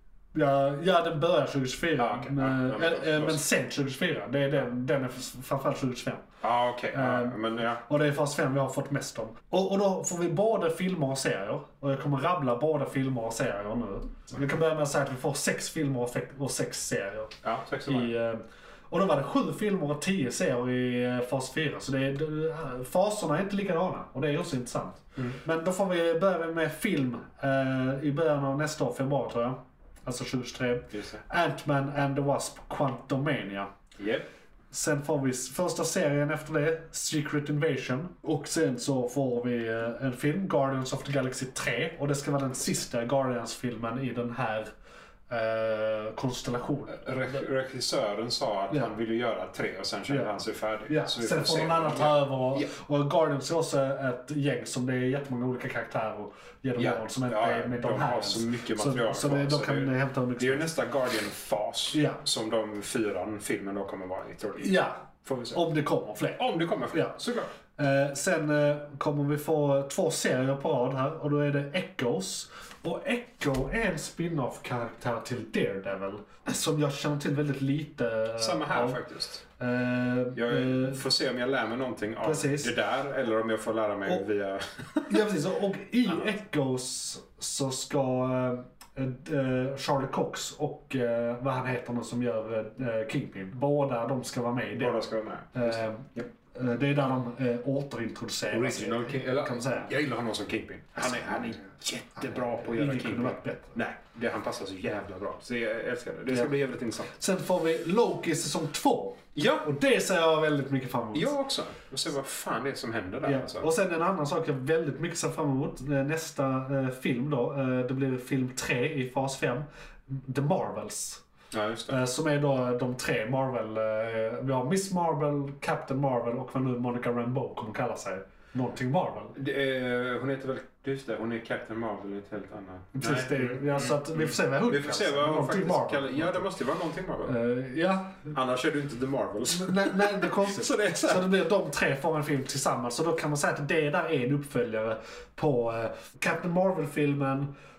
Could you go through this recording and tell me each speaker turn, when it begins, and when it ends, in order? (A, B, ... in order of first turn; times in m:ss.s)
0:00.3-0:06.3 A
0:02.0-0:03.4 B
0:06.4-0:07.8 B
0:06.9-0:17.3 A
0:17.4-0:18.1 B
0:17.9-0:33.7 A
0:30.9-0:31.2 B
0:34.0-0:34.3 B
0:34.7-0:44.7 A
0:45.3-0:47.1 A
0:46.9-0:52.7 B
0:50.1-0:50.3 A
0:50.9-1:00.7 A
0:56.8-1:05.6 B
1:01.9-1:02.2 A
1:04.6-1:07.2 A
1:06.4-1:07.5 B
1:07.8-1:19.0 A
1:18.4-1:19.4 B
1:19.6-1:21.0 A
1:20.4-1:25.3 B
1:22.2-1:22.7 A
1:25.1-1:39.9 A
1:34.7-1:36.2 B
1:38.5-1:47.2 B
1:41.0-1:41.6 A
1:42.2-1:43.8 A
1:47.2-1:51.3 A
1:49.4-1:49.7 B
1:51.1-1:53.7 B
1:53.2-2:01.2 A
2:01.5-2:02.0 B
2:01.9-2:09.4 A
2:09.4-2:17.4 B
2:13.0-2:16.5 A
2:17.2-2:18.3 A
2:18.3-2:21.3 B
2:19.5-2:27.5 A